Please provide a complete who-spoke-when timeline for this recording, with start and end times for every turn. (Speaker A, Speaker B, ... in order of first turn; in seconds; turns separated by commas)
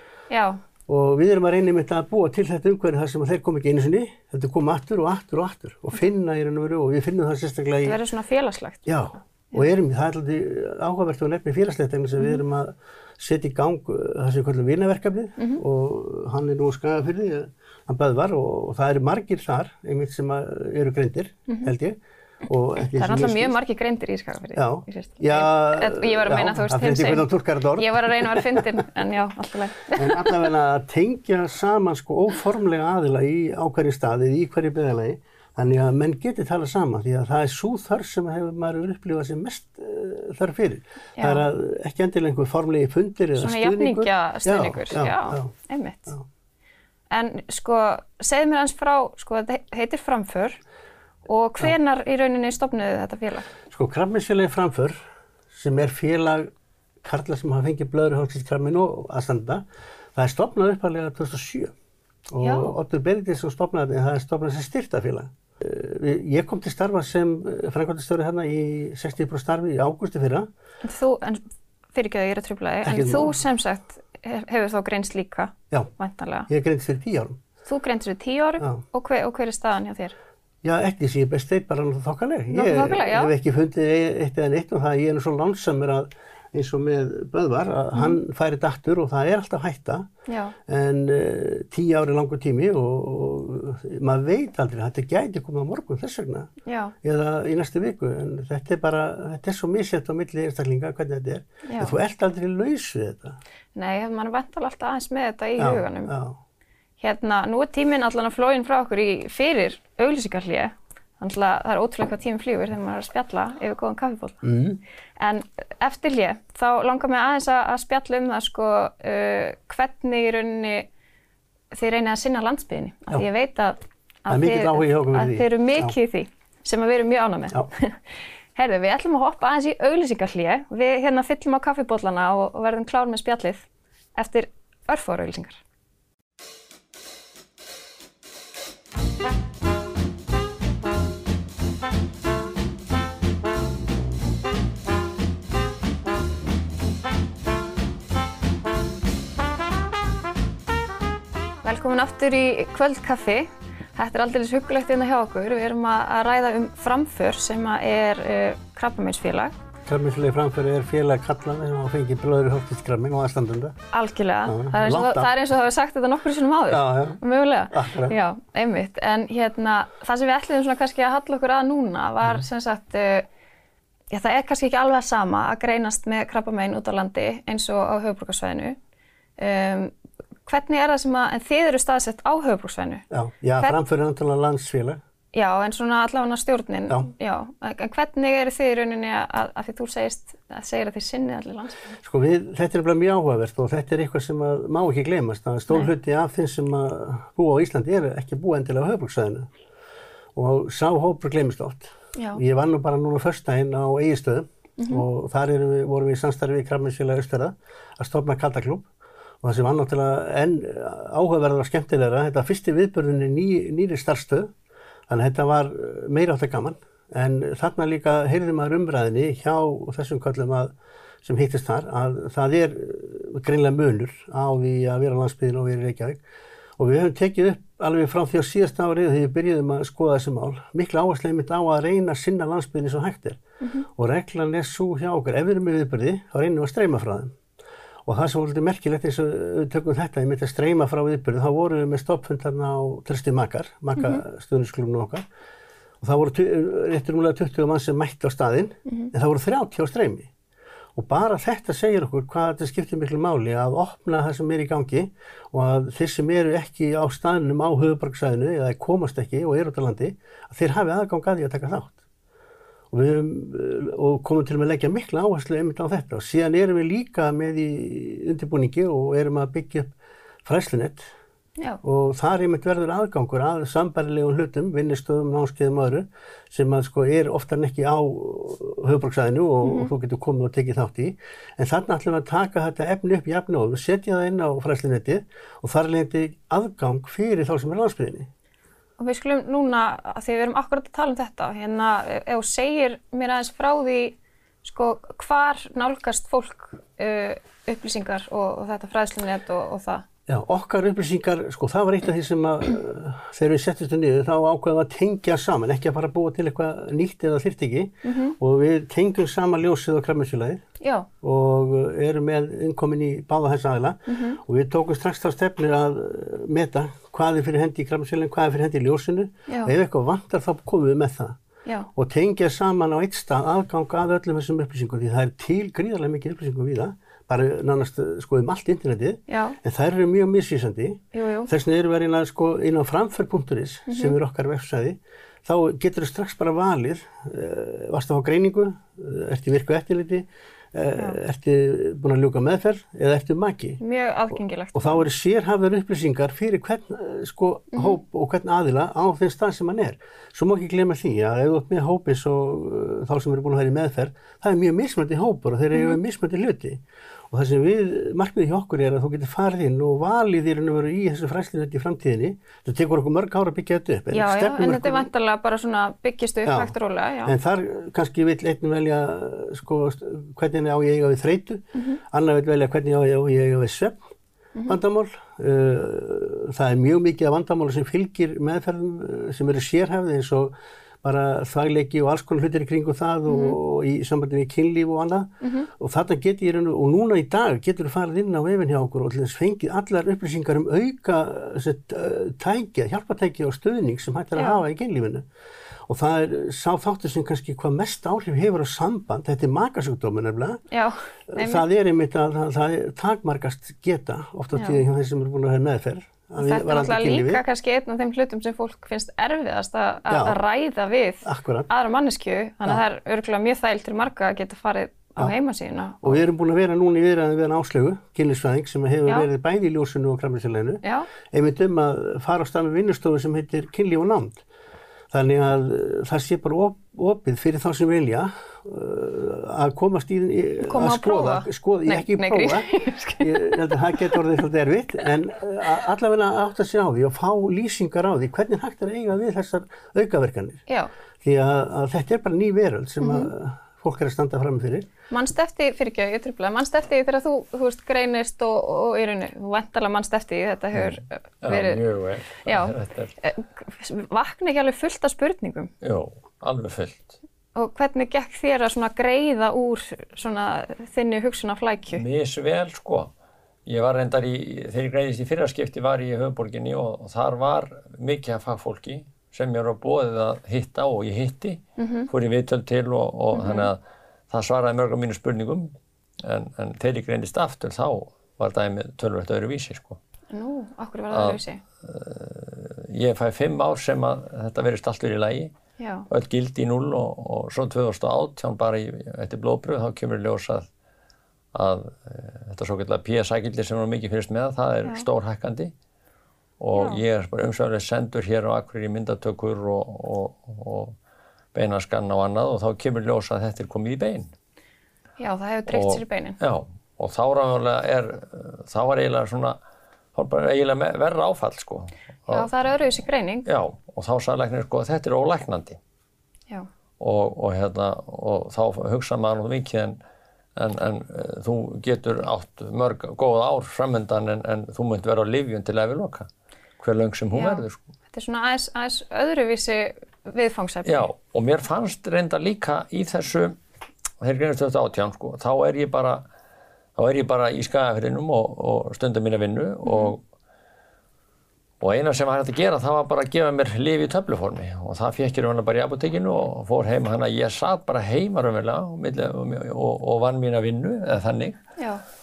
Speaker A: 0.3-0.6, Speaker B: 0.9-8.0, Speaker A: 7.8-9.0, Speaker B: 8.9-23.6, Speaker A: 15.4-15.6, Speaker A: 21.5-21.7, Speaker A: 22.9-30.4, Speaker B: 24.6-28.9, Speaker B: 29.9-45.5, Speaker A: 41.2-41.5, Speaker A: 43.4-46.1, Speaker A: 47.1-50.6, Speaker A: 51.3-53.5, Speaker B: 53.7-55.0, Speaker B: 55.5-56.5, Speaker B: 57.0-61.7, Speaker B: 62.3-70.5, Speaker A: 62.4-62.8, Speaker A: 70.8-71.4, Speaker A: 71.9-76.5, Speaker B: 72.8-73.4, Speaker B: 76.5-77.4, Speaker A: 77.7-80.2, Speaker B: 80.6-90.1, Speaker A: 82.5-83.3, Speaker A: 90.3-90.6, Speaker B: 90.7-96.5, Speaker A: 96.7-97.0, Speaker B: 97.0-103.4, Speaker A: 101.7-102.0, Speaker A: 103.8-106.1, Speaker B: 105.6-106.4, Speaker A: 107.0-114.4, Speaker B: 114.4-114.8, Speaker A: 115.2-120.9, Speaker A: 121.7-128.0, Speaker B: 124.3-125.9, Speaker A: 128.6-133.7, Speaker A: 134.2-135.6, Speaker A: 151.6-159.5, Speaker B: 159.9-163.8, Speaker A: 163.9-173.3, Speaker B: 164.5-165.3, Speaker B: 166.7-168.2, Speaker A: 174.1-178.8, Speaker A: 179.4-179.9, Speaker A: 180.5-183.1, Speaker B: 183.1-185.0, Speaker A: 185.3-192.0, Speaker B: 192.0-199.5, Speaker B: 200.3-208.9, Speaker A: 202.2-202.4, Speaker A: 204.8-205.0, Speaker B: 209.4-214.5, Speaker B: 215.1-226.2, Speaker B: 226.8-237.3, Speaker A: 233.6-233.9, Speaker B: 238.1-245.2, Speaker A: 244.0-244.2, Speaker B: 246.0-250.3, Speaker A: 248.9-249.1, Speaker B: 250.9-262.0, Speaker B: 262.9-269.9, Speaker B: 270.4-271.1, Speaker B: 271.8-288.3, Speaker A: 279.6-279.9, Speaker A: 289.0-300.1, Speaker B: 300.3-310.6, Speaker A: 308.0-308.4, Speaker A: 310.8-311.1, Speaker B: 311.2-321.4, Speaker A: 314.1-314.4, Speaker A: 319.5-319.7, Speaker B: 321.9-343.8, Speaker A: 329.3-329.6, Speaker A: 331.1-331.5, Speaker A: 333.9-334.2, Speaker A: 343.8-345.1, Speaker B: 344.8-365.1, Speaker A: 347.7-348.0, Speaker A: 364.1-367.4, Speaker B: 366.4-374.0, Speaker A: 371.8-372.0, Speaker B: 374.7-395.2, Speaker A: 383.3-383.6, Speaker A: 385.4-385.7, Speaker B: 395.9-400.6, Speaker A: 400.7-401.6, Speaker B: 401.3-407.4, Speaker A: 404.5-404.8, Speaker A: 406.4-416.2, Speaker B: 410.1-410.4, Speaker B: 411.2-411.7, Speaker B: 416.0-424.4, Speaker A: 420.8-421.1, Speaker B: 425.1-440.6, Speaker A: 430.6-434.3, Speaker B: 441.2-444.9, Speaker A: 443.0-443.3, Speaker A: 445.1-451.8, Speaker C: 450.8-453.1, Speaker A: 452.4-455.7, Speaker C: 455.8-457.2, Speaker A: 457.6-462.0, Speaker C: 461.9-463.1, Speaker C: 463.7-480.0, Speaker A: 471.8-472.1, Speaker A: 473.3-473.7, Speaker A: 480.3-481.6, Speaker C: 481.1-485.5, Speaker A: 485.8-486.1, Speaker C: 486.1-490.7, Speaker C: 491.5-495.7, Speaker C: 496.6-501.0, Speaker A: 496.7-497.0, Speaker C: 501.5-504.3, Speaker A: 505.2-506.4, Speaker C: 505.7-509.6, Speaker C: 510.1-512.5, Speaker A: 512.3-513.5, Speaker C: 513.5-515.8, Speaker C: 517.0-520.0, Speaker C: 520.6-527.8, Speaker A: 527.3-531.1, Speaker C: 530.9-533.6, Speaker C: 534.2-536.2, Speaker C: 537.0-540.2, Speaker A: 539.9-540.1, Speaker C: 541.8-551.6, Speaker A: 551.8-552.0